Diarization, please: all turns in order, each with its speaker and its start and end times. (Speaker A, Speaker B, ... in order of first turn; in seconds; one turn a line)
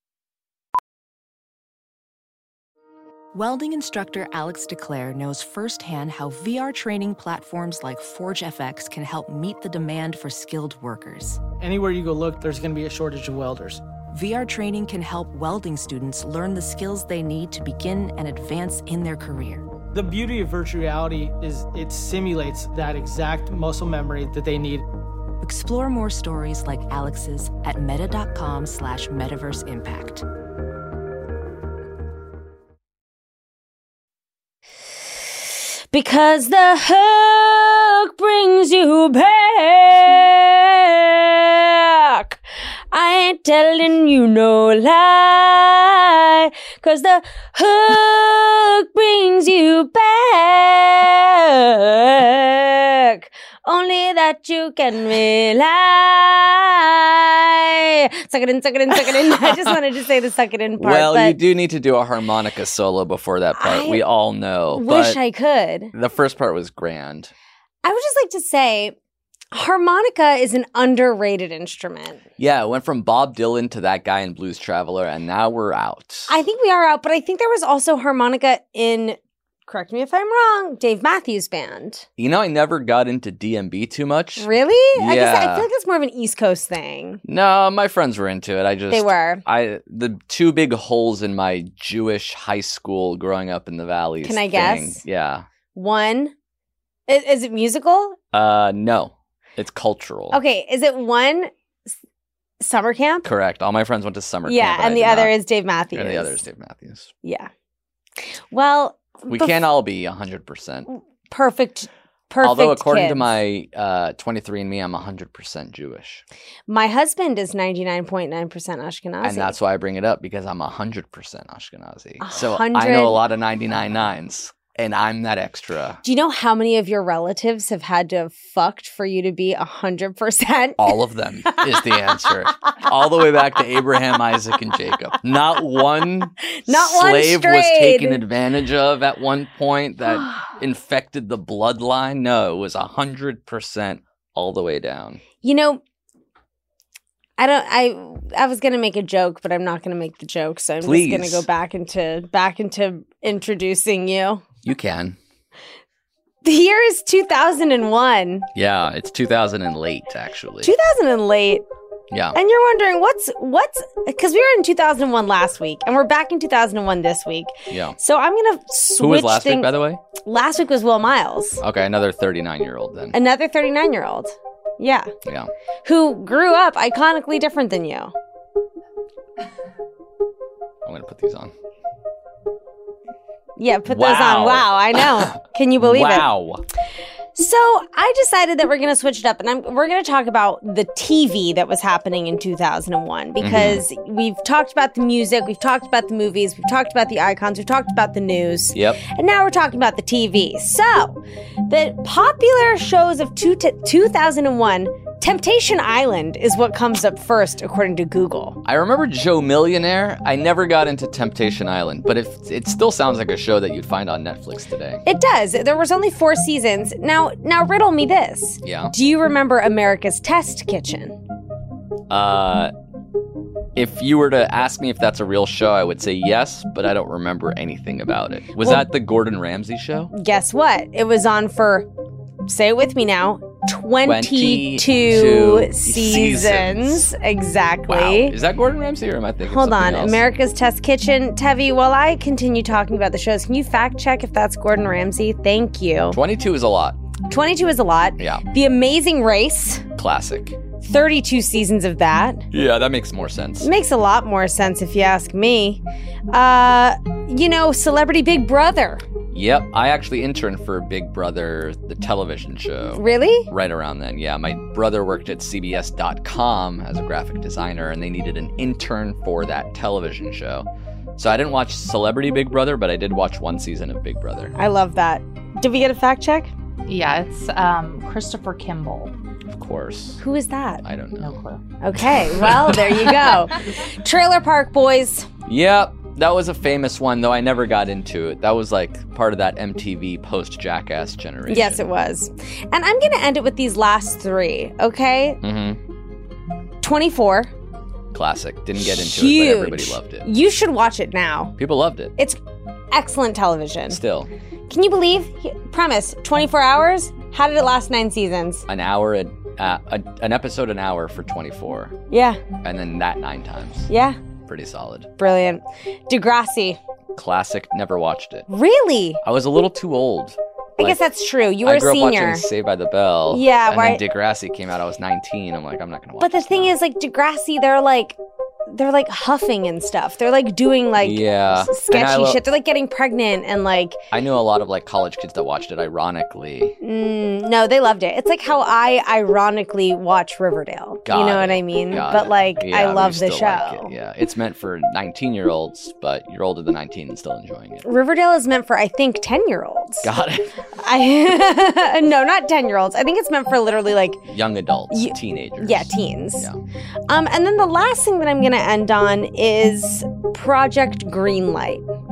Speaker A: 3.3-11.4
Speaker B: 11.6-13.8
Speaker A: 14.1-19.6
Speaker B: 19.9-24.8
Speaker A: 25.4-30.2
Speaker C: 35.9-42.4
Speaker C: 42.9-61.4
Speaker D: 58.9-59.8
Speaker D: 60.8-65.2
Speaker C: 63.5-64.0
Speaker C: 64.7-65.9
Speaker D: 65.9-67.3
Speaker C: 67.8-69.0
Speaker C: 69.5-72.2
Speaker D: 72.4-76.3
Speaker C: 76.3-82.0
Speaker D: 82.2-85.7
Speaker C: 84.4-87.2
Speaker D: 87.2-95.5
Speaker C: 88.9-89.4
Speaker C: 94.2-95.0
Speaker C: 95.7-96.3
Speaker C: 97.1-98.2
Speaker D: 98.3-100.4
Speaker C: 100.3-101.9
Speaker C: 102.6-103.3
Speaker D: 103.2-105.3
Speaker C: 104.4-106.4
Speaker D: 105.9-107.1
Speaker C: 107.2-107.5
Speaker C: 108.5-109.6
Speaker D: 109.3-110.9
Speaker C: 110.9-113.2
Speaker D: 112.4-116.2
Speaker C: 116.7-119.5
Speaker D: 119.2-126.0
Speaker C: 122.2-123.2
Speaker C: 126.0-130.9
Speaker D: 130.8-145.2
Speaker C: 131.4-132.7
Speaker C: 136.5-138.2
Speaker C: 145.4-145.8
Speaker C: 147.4-154.4
Speaker D: 150.8-151.4
Speaker D: 154.6-155.2
Speaker C: 156.4-158.5
Speaker D: 158.5-160.7
Speaker C: 160.6-161.6
Speaker D: 162.1-162.3
Speaker C: 162.3-169.7
Speaker D: 167.7-168.0
Speaker D: 169.0-170.0
Speaker C: 170.2-171.6
Speaker D: 171.6-173.2
Speaker C: 173.1-175.1
Speaker D: 175.2-175.5
Speaker C: 175.8-178.1
Speaker D: 180.8-181.5
Speaker C: 183.6-186.3
Speaker D: 183.9-186.6
Speaker C: 187.3-208.6
Speaker D: 193.4-193.8
Speaker D: 198.7-199.0
Speaker D: 208.6-215.0
Speaker C: 215.0-221.2
Speaker D: 218.6-218.9
Speaker D: 222.1-222.7
Speaker D: 223.7-230.1
Speaker C: 228.6-228.8
Speaker C: 230.1-231.9
Speaker C: 232.5-238.4
Speaker D: 234.0-237.1
Speaker D: 237.9-240.3
Speaker C: 239.4-246.2
Speaker D: 246.1-247.0
Speaker C: 247.3-249.8
Speaker D: 248.2-248.4
Speaker D: 249.9-250.6
Speaker C: 250.8-252.4
Speaker D: 252.5-253.7
Speaker C: 253.6-259.0
Speaker D: 259.3-274.5
Speaker C: 262.9-263.5
Speaker C: 274.5-276.5
Speaker E: 276.9-279.1
Speaker D: 279.5-280.2
Speaker C: 280.2-280.8
Speaker D: 280.8-281.4
Speaker E: 281.2-281.6
Speaker C: 281.8-285.3
Speaker D: 282.1-283.4
Speaker D: 285.4-291.8
Speaker C: 291.5-295.4
Speaker D: 295.4-295.8
Speaker C: 296.8-297.5
Speaker D: 298.1-300.2
Speaker C: 298.8-301.5
Speaker D: 301.6-302.1
Speaker C: 302.9-304.0
Speaker D: 303.9-304.3
Speaker C: 304.7-308.7
Speaker D: 308.7-311.9
Speaker C: 312.1-312.4
Speaker D: 312.6-313.9
Speaker C: 313.9-314.2
Speaker D: 314.4-315.1
Speaker C: 315.2-316.8
Speaker D: 317.1-318.5
Speaker C: 318.5-319.2
Speaker D: 319.2-321.0
Speaker C: 320.8-322.5
Speaker D: 321.6-326.8
Speaker C: 323.3-324.0
Speaker C: 326.2-328.2
Speaker C: 328.7-334.0
Speaker D: 331.0-332.4
Speaker D: 334.1-336.8
Speaker C: 336.8-343.9
Speaker D: 341.1-347.8
Speaker C: 347.8-350.1
Speaker D: 350.0-350.6
Speaker C: 350.8-354.2
Speaker D: 354.3-356.6
Speaker C: 354.9-356.5
Speaker C: 357.1-361.8